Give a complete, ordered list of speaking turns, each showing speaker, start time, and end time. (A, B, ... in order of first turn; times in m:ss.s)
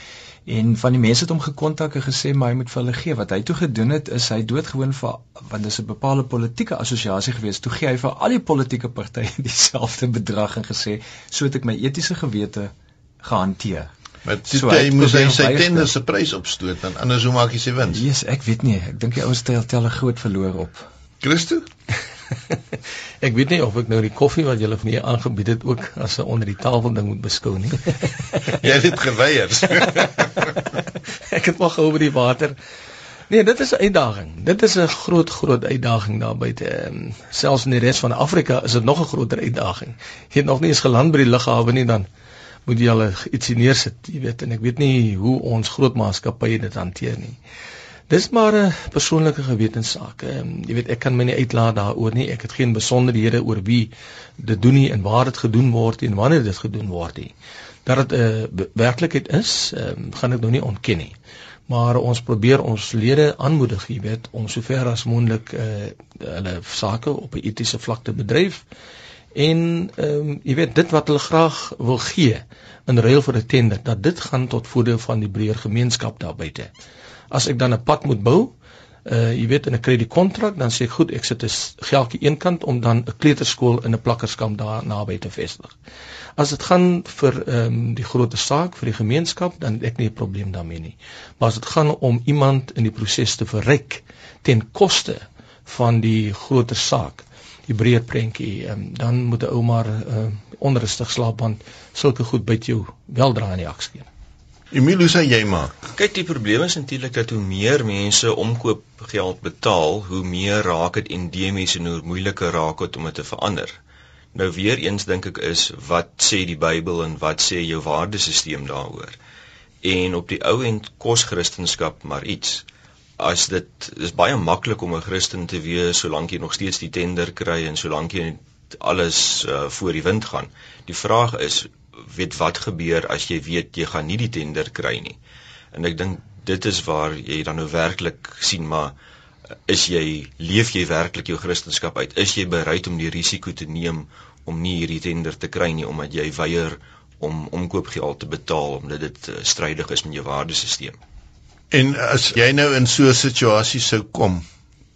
0:00.5-0:13.9 A
0:14.2-0:18.0 B
0:14.5-0:15.9 A
0:17.9-0:20.9 A
0:21.2-0:21.7 B
0:23.2-0:28.1 C
0:28.5-0:30.5 B
0:31.2-0:32.6 C
0:33.3-0:42.1 C
0:42.7-0:47.4 C
0:48.1-0:57.3 C
0:57.8-1:01.2 C
1:01.7-1:08.6 C
1:09.3-1:16.7 C
1:17.3-1:18.5 C
1:19.1-1:25.7 C
1:26.4-1:44.1 C
1:44.7-1:45.7 B
1:45.9-1:53.8 D
1:54.3-1:59.2 D
1:59.8-2:02.6 D
2:03.2-2:15.2 D
2:15.7-2:18.9 D
2:19.7-2:31.0 D
2:31.7-2:34.4 B